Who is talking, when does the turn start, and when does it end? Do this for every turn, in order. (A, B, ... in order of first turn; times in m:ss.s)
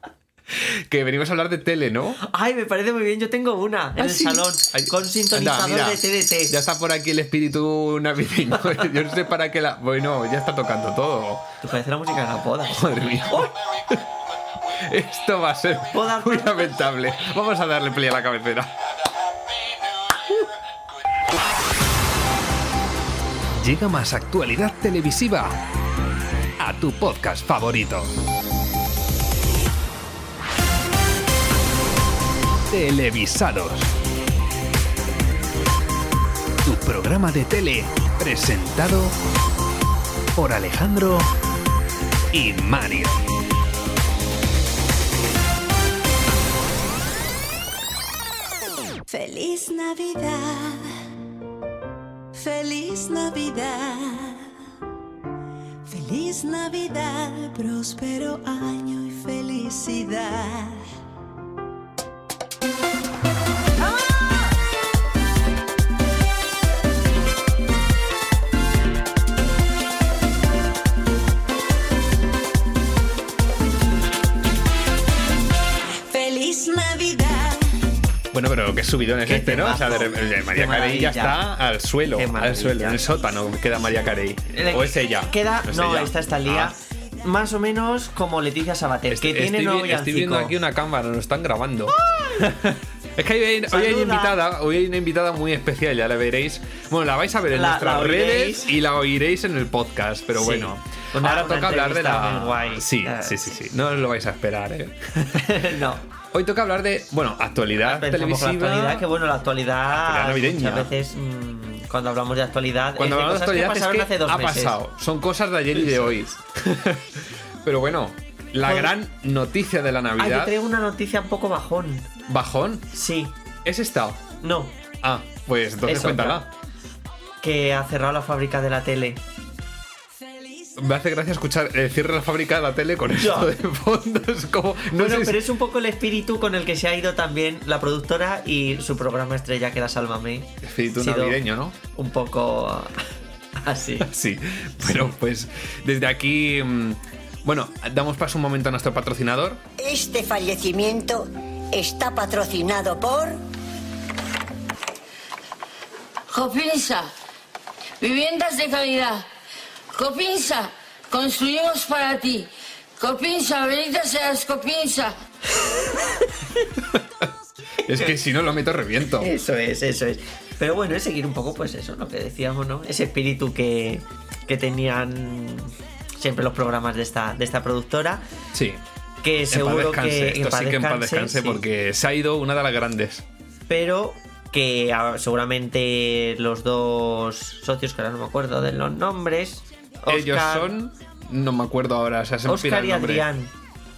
0:00.6-0:02.2 A
0:02.2-0:06.5 B
0:04.0-0:11.4 A
0:11.6-0:13.5 B
0:12.8-0:14.0 A
0:14.8-0:18.7 A
0:15.9-0:16.8 B
0:23.6-0:25.6 A
0:26.6-0:28.1 A
0:32.7-0:33.9 A
0:36.6-0:39.2 A
0:40.4-0:41.3 A
0:42.3-0:43.2 A
0:49.1-0:50.9 C
0:52.3-0:54.5 C
0:55.9-1:00.8 C
1:16.1-1:17.8 C
1:18.3-1:26.7 A
1:19.3-1:21.4 B
1:22.2-1:23.0 B
1:24.5-1:30.5 B
1:29.1-1:45.0 A
1:32.0-1:32.4 B
1:33.7-1:34.4 B
1:37.5-1:38.8 B
1:40.4-1:43.4 B
1:45.4-1:46.0 B
1:46.3-1:49.0 A
1:47.8-1:54.8 B
1:49.9-1:50.9 A
1:53.0-2:00.5 A
1:55.8-1:56.1 B
1:58.6-1:58.9 B
2:00.2-2:02.1 B
2:02.3-2:02.9 A
2:02.9-2:03.3 B
2:03.6-2:04.2 A
2:04.4-2:04.7 B
2:05.0-2:06.5 A
2:05.9-2:06.4 B
2:07.4-2:09.2 B
2:10.8-2:15.4 A
2:13.2-2:13.5 B
2:15.0-2:21.4 B
2:20.6-2:21.8 A
2:22.0-2:22.9 B
2:23.6-2:24.1 B
2:24.0-2:29.6 A
2:24.9-2:25.1 B
2:29.8-2:33.4 D
2:36.3-2:37.1 E
2:38.0-2:39.2 E
2:40.0-2:45.2 E
2:45.6-2:46.1 B
2:47.9-2:49.3 A
2:49.2-2:58.2 B
2:58.5-2:58.8 A
2:59.2-3:01.6 B
2:59.5-3:03.2 A
3:03.7-3:10.7 B
3:10.1-3:13.3 A
3:12.5-3:13.5 B